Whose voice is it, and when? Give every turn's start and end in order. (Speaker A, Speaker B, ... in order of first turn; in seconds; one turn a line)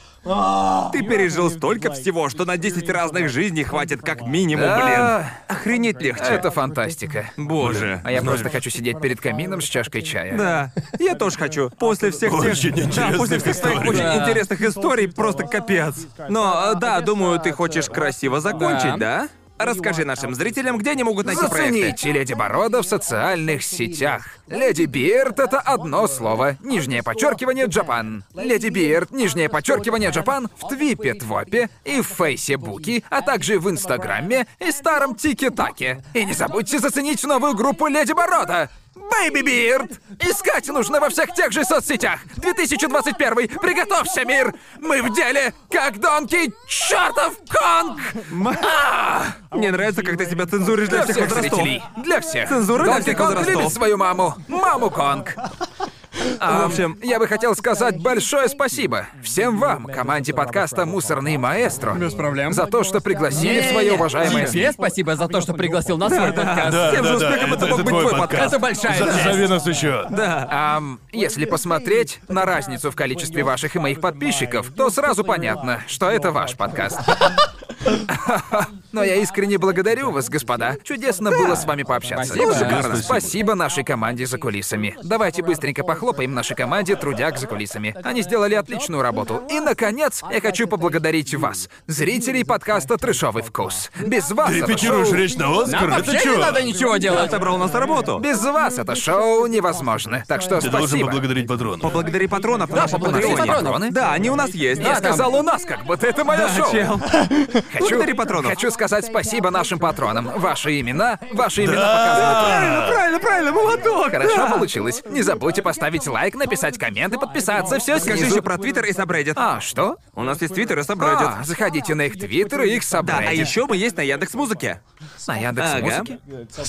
Speaker A: 0.8-6.5
Speaker B: 4.5-5.4
Speaker B: 6.2-7.4
Speaker A: 7.4-8.1
Speaker C: 7.6-8.6
Speaker B: 8.0-10.5
Speaker A: 10.3-22.0
Speaker C: 12.2-14.2
Speaker D: 13.9-14.4
Speaker D: 18.5-19.1
Speaker B: 21.2-49.4
Speaker A: 48.3-48.7
Speaker A: 49.5-51.8
Speaker B: 50.9-55.4
Speaker A: 52.5-53.8
Speaker B: 56.4-64.7
Speaker A: 56.5-57.0
Speaker D: 61.9-62.7
Speaker D: 63.3-67.0
Speaker A: 66.0-69.4
Speaker C: 66.6-70.2
Speaker D: 68.3-69.5
Speaker A: 70.1-70.5
Speaker B: 70.5-77.0
Speaker B: 78.1-95.3
Speaker D: 82.1-82.9
Speaker A: 82.3-83.0
Speaker C: 82.4-83.4
Speaker C: 94.4-96.7
Speaker D: 95.6-97.5
Speaker A: 96.9-98.2
Speaker B: 98.2-101.2
Speaker C: 100.6-102.0
Speaker A: 101.8-105.0
Speaker D: 102.7-103.9
Speaker B: 102.7-104.0
Speaker D: 104.8-105.4
Speaker B: 104.8-106.9
Speaker A: 106.3-108.6
Speaker B: 107.7-112.6
Speaker C: 111.6-113.0
Speaker A: 112.2-114.7
Speaker B: 114.1-118.5
Speaker A: 118.0-119.4
Speaker B: 119.3-120.0
Speaker A: 120.2-121.4
Speaker B: 121.0-123.5
Speaker A: 123.0-124.8
Speaker B: 125.2-126.2
Speaker A: 125.6-126.1